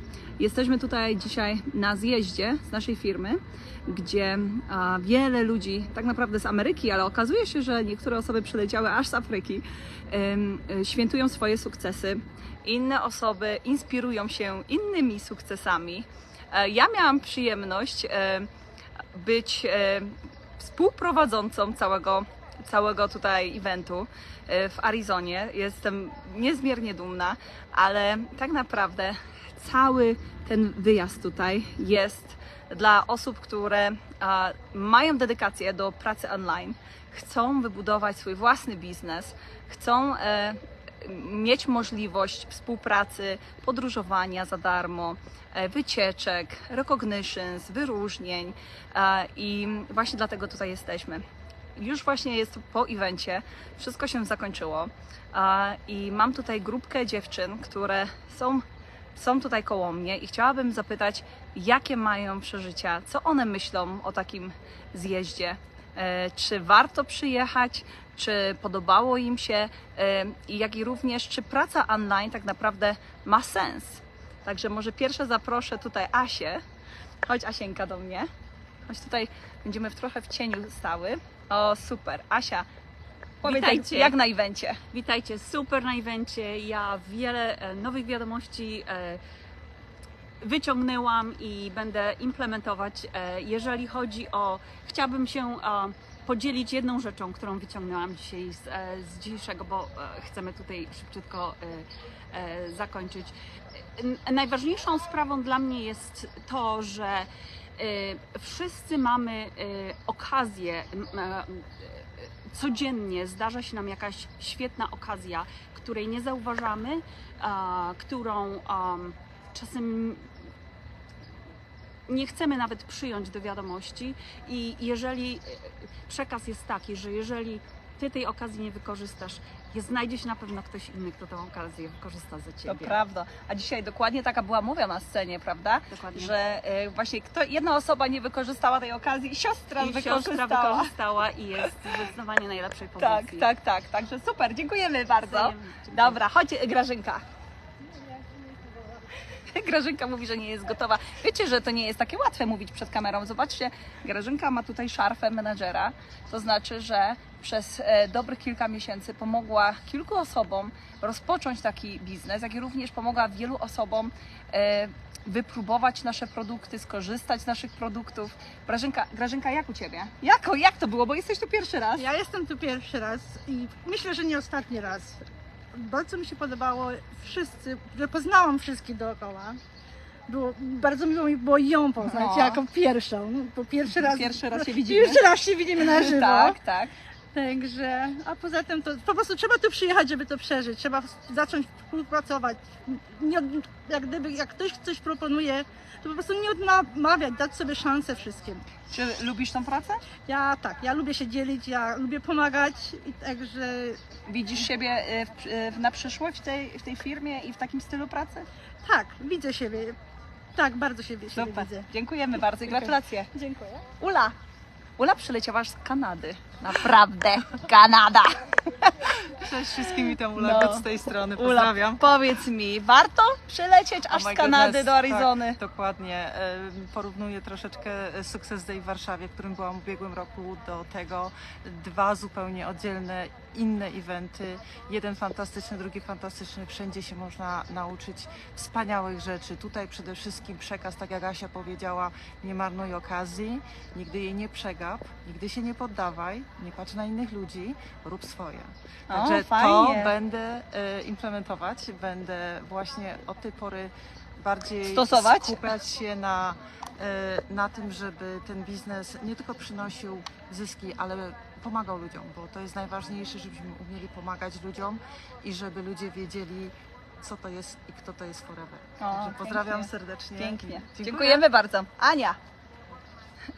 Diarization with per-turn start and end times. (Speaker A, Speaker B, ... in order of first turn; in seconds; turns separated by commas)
Speaker A: 0.4-18.5, Speaker A: 19.1-51.2, Speaker A: 51.8-58.6, Speaker A: 59.2-76.6, Speaker A: 77.3-78.3, Speaker A: 78.9-82.7, Speaker B: 83.4-84.2, Speaker A: 83.4-84.8, Speaker B: 84.9-89.2, Speaker B: 90.4-120.3, Speaker B: 122.1-133.0, Speaker A: 132.7-140.9, Speaker B: 135.9-136.3, Speaker B: 139.8-143.5, Speaker A: 143.0-147.2, Speaker B: 145.2-146.2, Speaker A: 149.5-172.1, Speaker C: 172.0-179.6, Speaker C: 180.3-186.6, Speaker A: 182.0-182.6, Speaker A: 183.9-186.9, Speaker C: 187.3-198.6, Speaker A: 198.9-200.0, Speaker C: 200.3-204.0, Speaker A: 204.3-208.5, Speaker C: 208.8-210.0, Speaker C: 210.6-211.9, Speaker A: 211.3-213.3, Speaker C: 212.8-213.9, Speaker A: 214.0-214.3, Speaker A: 215.0-225.6, Speaker D: 219.3-222.0, Speaker D: 224.1-271.4, Speaker A: 249.1-250.1, Speaker A: 254.8-255.7, Speaker A: 269.0-272.4